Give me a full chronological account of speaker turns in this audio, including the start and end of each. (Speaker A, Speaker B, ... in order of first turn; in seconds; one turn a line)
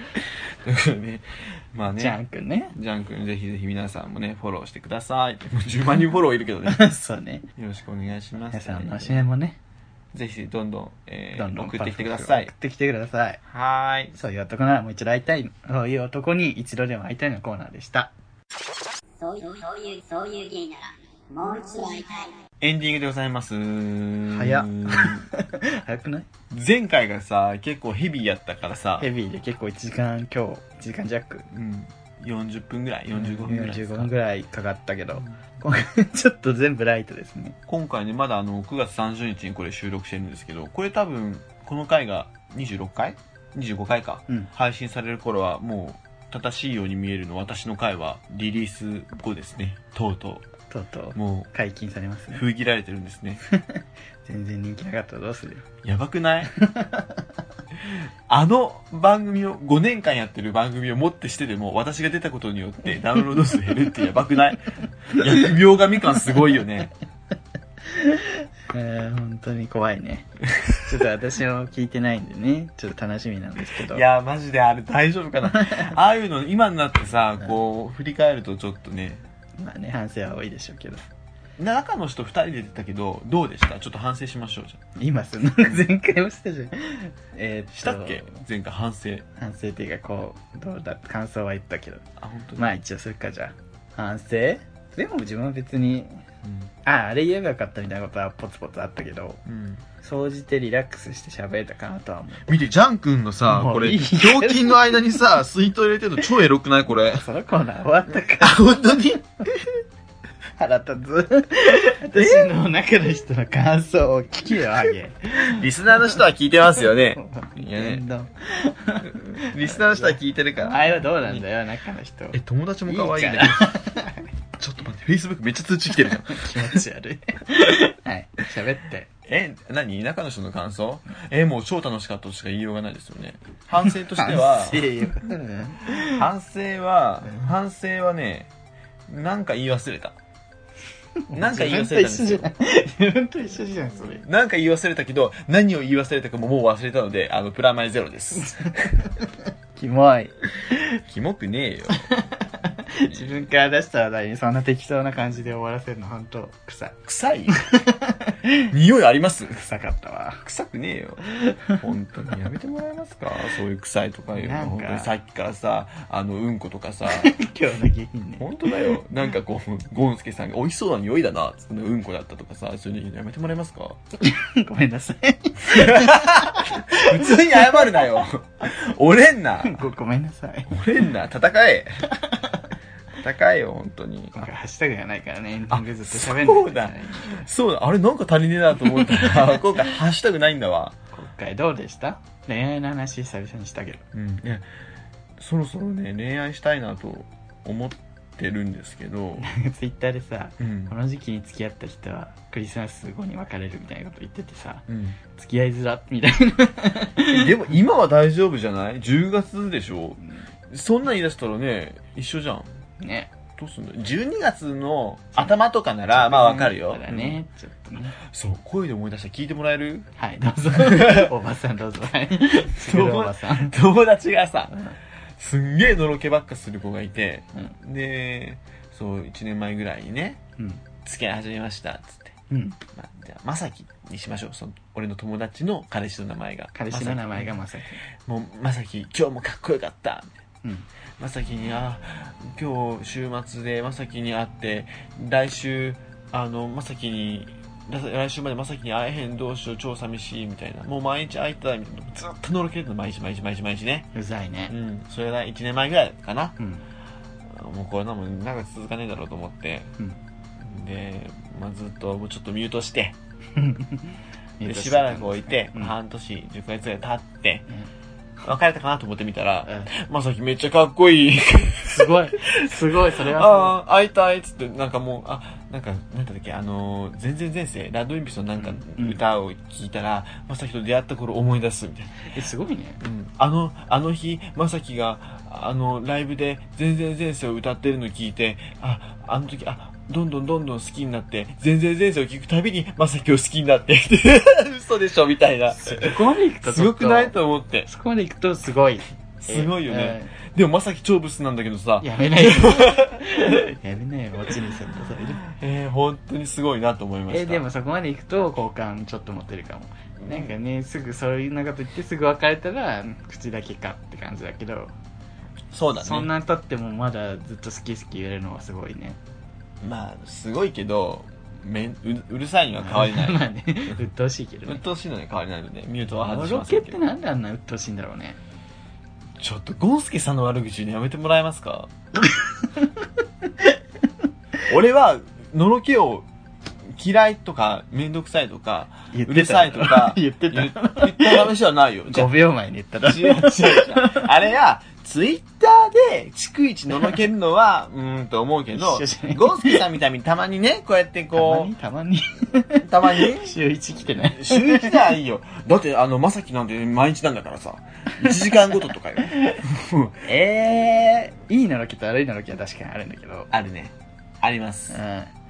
Speaker A: 0.6-2.2
Speaker B: 2.0-2.7
Speaker A: 2.7-6.8
Speaker B: 6.7-7.4
Speaker A: 7.5-9.3
Speaker B: 8.5-9.6
Speaker A: 10.1-12.5
Speaker B: 11.3-13.4
Speaker A: 13.5-14.1
Speaker B: 14.1-18.1
Speaker C: 19.2-22.4
Speaker A: 22.6-25.3
Speaker B: 24.3-26.3
Speaker A: 26.5-29.1
Speaker B: 29.0-31.4
Speaker A: 31.5-34.1
Speaker B: 33.1-37.6
Speaker A: 37.7-50.4
Speaker B: 50.7-52.4
Speaker A: 51.1-51.5
Speaker A: 52.3-53.4
Speaker B: 53.5-55.6
Speaker A: 55.8-56.5
Speaker B: 56.5-57.2
Speaker A: 57.8-66.9
Speaker B: 67.8-74.0
Speaker A: 73.8-79.2
Speaker B: 75.5-75.9
Speaker B: 79.6-81.1
Speaker A: 81.6-84.8
Speaker B: 85.0-88.4
Speaker A: 85.6-85.8
Speaker A: 87.7-89.2
Speaker B: 89.3-92.0
Speaker A: 92.2-92.7
Speaker B: 92.6-96.2
Speaker A: 96.4-96.7
Speaker B: 96.8-99.4
Speaker A: 99.5-99.8
Speaker B: 100.0-102.5
Speaker A: 102.5-107.2
Speaker B: 103.5-105.0
Speaker B: 107.1-109.1
Speaker A: 108.3-109.7
Speaker B: 110.6-116.1
Speaker A: 112.2-112.5
Speaker A: 115.4-118.0
Speaker B: 117.1-124.2
Speaker A: 119.0-121.5
Speaker A: 122.3-123.8
Speaker A: 124.5-126.8
Speaker B: 126.3-129.1
Speaker A: 129.2-135.3
Speaker B: 133.8-136.2
Speaker A: 135.9-138.5
Speaker A: 139.1-140.2
Speaker B: 141.3-144.2
Speaker A: 141.3-142.5
Speaker A: 144.2-148.7
Speaker B: 148.4-149.1
Speaker B: 149.8-150.3
Speaker A: 151.1-152.0
Speaker B: 152.1-156.9
Speaker A: 153.0-153.5
Speaker A: 157.0-157.6
Speaker B: 157.6-158.7
Speaker A: 158.7-159.6
Speaker B: 159.5-160.4
Speaker A: 160.4-167.3
Speaker B: 164.3-165.1
Speaker B: 167.1-169.0
Speaker A: 168.4-174.0
Speaker B: 174.2-178.1
Speaker A: 175.6-179.8
Speaker B: 179.6-180.8
Speaker A: 180.7-182.0
Speaker B: 182.2-182.6
Speaker A: 183.2-184.4
Speaker B: 184.3-187.5
Speaker A: 185.7-190.9
Speaker B: 188.9-189.6
Speaker B: 191.1-194.0
Speaker A: 194.1-194.7
Speaker A: 195.4-199.5
Speaker B: 199.4-207.5
Speaker A: 200.6-200.9
Speaker A: 204.9-205.2
Speaker A: 207.3-212.7
Speaker B: 213.0-213.3
Speaker A: 213.6-217.4
Speaker B: 216.1-218.2
Speaker A: 218.2-220.1
Speaker B: 220.2-223.7
Speaker A: 220.7-221.3
Speaker A: 222.7-224.7
Speaker B: 224.7-224.9
Speaker A: 225.4-230.4
Speaker B: 230.6-230.8
Speaker A: 231.0-232.3
Speaker B: 232.5-232.8
Speaker A: 232.9-237.6
Speaker B: 236.7-238.0
Speaker A: 238.2-240.3
Speaker B: 240.6-240.9
Speaker A: 241.2-254.1
Speaker B: 254.1-254.7
Speaker A: 254.7-256.5
Speaker B: 256.6-256.8
Speaker A: 257.5-259.9
Speaker A: 260.6-263.2
Speaker B: 263.6-265.9
Speaker A: 264.6-267.6
Speaker A: 268.4-282.2
Speaker B: 269.6-269.9
Speaker B: 271.8-273.8
Speaker B: 278.6-279.2
Speaker B: 282.3-283.0
Speaker A: 283.0-297.9
Speaker B: 295.7-297.3
Speaker B: 297.9-300.3
Speaker A: 299.4-303.6
Speaker B: 302.0-305.5
Speaker A: 305.4-307.6
Speaker B: 307.3-314.9
Speaker A: 310.2-310.5
Speaker A: 315.7-316.3
Speaker B: 316.0-319.2
Speaker A: 319.8-323.4
Speaker B: 322.8-324.8
Speaker A: 324.6-327.0
Speaker B: 326.2-328.4
Speaker A: 329.4-332.3
Speaker B: 332.3-333.1
Speaker A: 334.7-336.3
Speaker A: 336.9-342.3
Speaker B: 339.1-341.5
Speaker B: 342.1-344.3
Speaker A: 343.1-351.7
Speaker B: 348.7-349.8
Speaker B: 351.3-355.1
Speaker A: 352.8-353.6
Speaker A: 354.2-360.2
Speaker B: 358.2-358.8
Speaker B: 359.4-359.6
Speaker B: 360.2-363.5
Speaker A: 363.5-365.0
Speaker B: 364.9-365.3